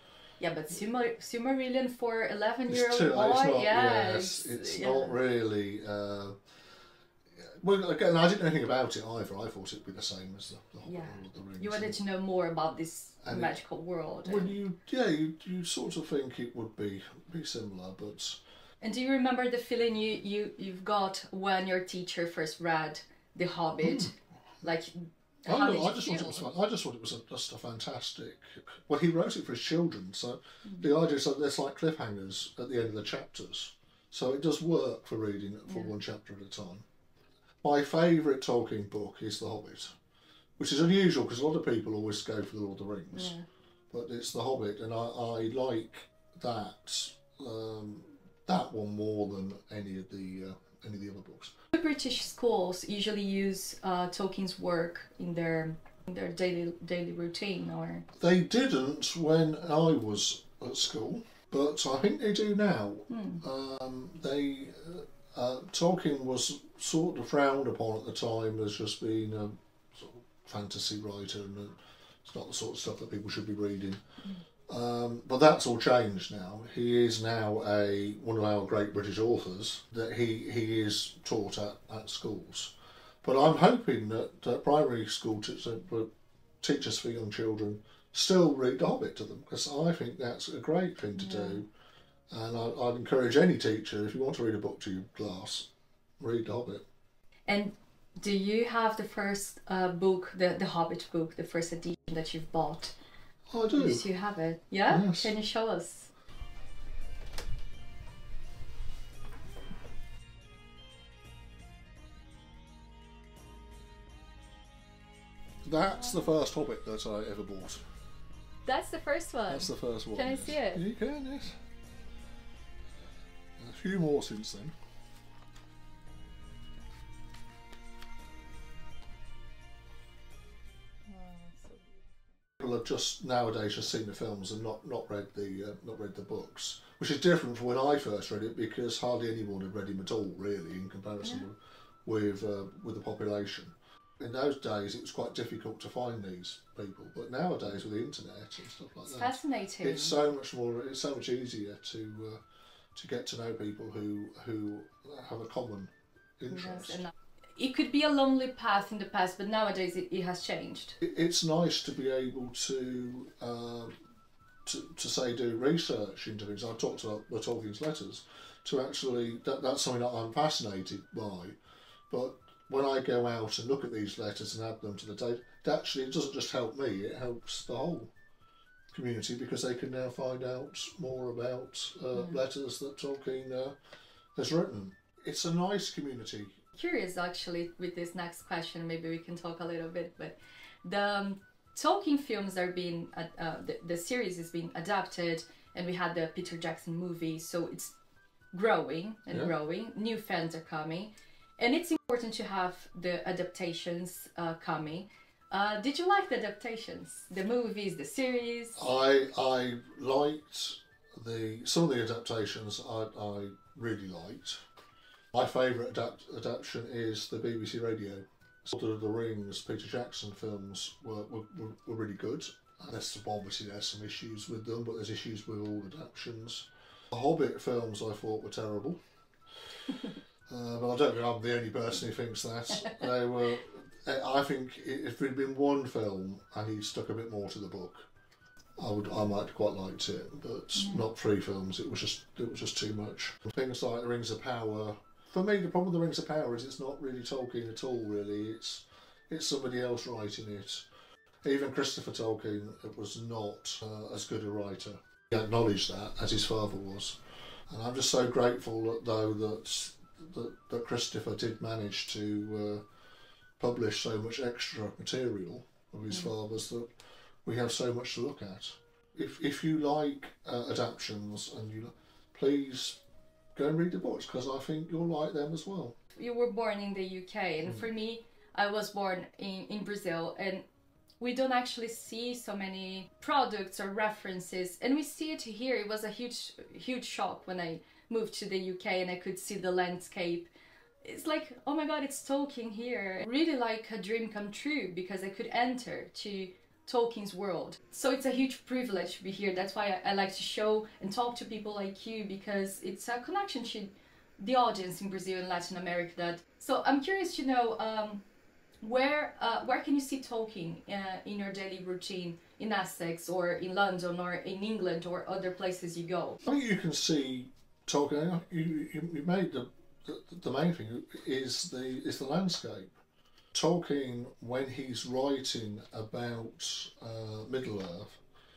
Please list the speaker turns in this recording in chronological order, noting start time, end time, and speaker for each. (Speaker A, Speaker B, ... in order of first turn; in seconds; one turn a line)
Speaker A: 0.4-5.2
Speaker B: 2.7-6.4
Speaker B: 7.4-12.0
Speaker A: 10.8-14.5
Speaker B: 13.2-13.5
Speaker B: 14.2-18.4
Speaker A: 18.8-26.5
Speaker B: 23.8-24.1
Speaker B: 25.4-36.8
Speaker A: 35.6-35.9
Speaker B: 37.6-39.9
Speaker B: 40.6-43.3
Speaker A: 43.1-43.4
Speaker B: 43.9-51.5
Speaker A: 51.7-58.0
Speaker B: 58.2-74.0
Speaker A: 63.1-63.4
Speaker B: 74.7-86.1
Speaker B: 86.6-91.7
Speaker A: 91.1-91.6
Speaker B: 92.3-95.7
Speaker B: 96.2-96.8
Speaker A: 97.5-102.9
Speaker B: 103.5-104.0
Speaker A: 103.7-106.1
Speaker B: 104.9-105.3
Speaker B: 115.6-117.8
Speaker A: 118.7-120.8
Speaker B: 119.5-121.5
Speaker B: 123.6-124.7
Speaker A: 131.1-132.0
Speaker B: 132.6-152.4
Speaker A: 141.2-141.5
Speaker A: 149.0-150.2
Speaker B: 152.9-157.0
Speaker A: 156.5-160.9
Speaker B: 161.0-163.9
Speaker B: 164.7-171.6
Speaker B: 172.1-178.1
Speaker B: 178.9-183.8
Speaker B: 184.3-186.6
Speaker A: 186.8-197.9
Speaker A: 198.5-208.8
Speaker B: 208.8-214.6
Speaker B: 215.3-229.0
Speaker B: 230.5-238.1
Speaker B: 238.8-250.8
Speaker A: 240.8-241.0
Speaker B: 251.4-257.2
Speaker B: 257.7-262.8
Speaker B: 263.6-266.9
Speaker B: 267.4-273.0
Speaker B: 273.5-275.9
Speaker A: 276.1-280.6
Speaker A: 281.2-290.5
Speaker A: 291.0-308.2
Speaker A: 308.8-316.4
Speaker B: 316.4-322.9
Speaker B: 323.5-328.2